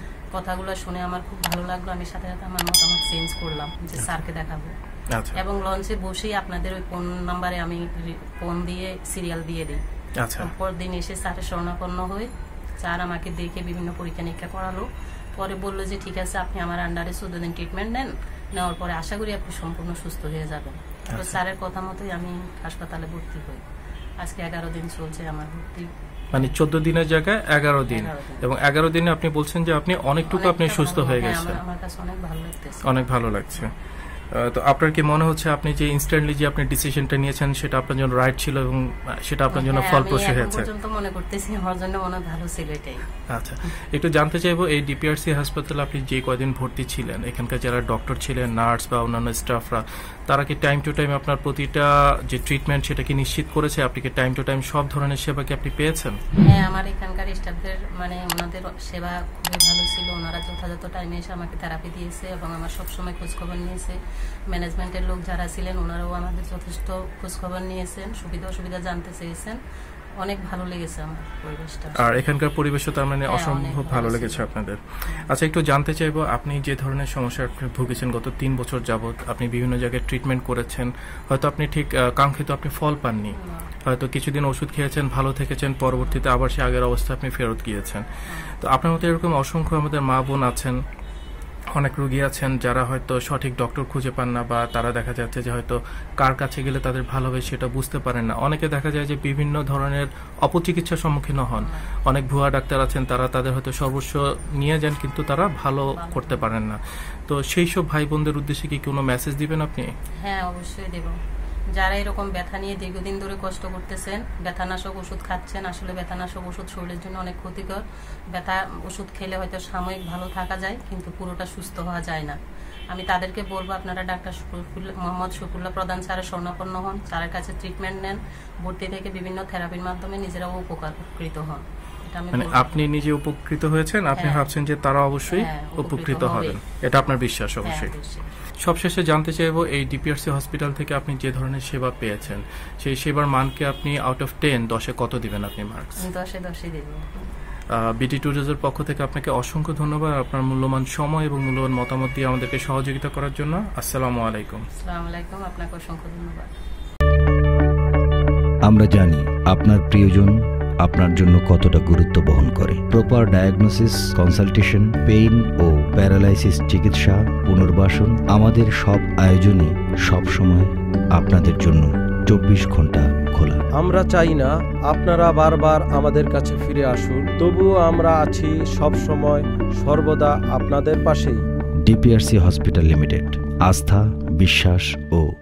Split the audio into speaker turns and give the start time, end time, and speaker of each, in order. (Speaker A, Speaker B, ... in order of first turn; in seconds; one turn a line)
Speaker A: 0.3-4.7
Speaker B: 5.1-5.4
Speaker A: 5.3-9.8
Speaker B: 10.2-10.5
Speaker A: 10.4-12.3
Speaker A: 12.8-14.8
Speaker A: 15.3-23.6
Speaker B: 21.1-21.3
Speaker A: 24.2-26.6
Speaker B: 26.3-31.6
Speaker A: 27.9-28.4
Speaker A: 30.2-33.0
Speaker B: 32.8-33.7
Speaker B: 34.3-40.7
Speaker A: 39.5-43.1
Speaker B: 43.3-56.2
Speaker A: 56.4-64.0
Speaker A: 64.5-69.6
Speaker A: 70.2-72.2
Speaker B: 72.0-88.0
Speaker A: 73.3-74.5
Speaker A: 83.4-83.7
Speaker A: 88.3-88.5
Speaker B: 88.6-90.7
Speaker B: 91.8-109.9
Speaker A: 101.5-101.9
Speaker A: 105.8-106.5
Speaker A: 110.2-111.2
Speaker A: 111.8-122.4
Speaker A: 122.9-132.8
Speaker B: 132.3-137.9
Speaker A: 134.2-134.5
Speaker A: 135.3-136.6
Speaker A: 137.6-138.3
Speaker B: 138.6-146.0
Speaker A: 146.0-147.0
Speaker B: 147.8-154.7
Speaker A: 154.8-156.5
Speaker C: 158.7-173.6
Speaker D: 173.7-181.4
Speaker C: 181.8-185.3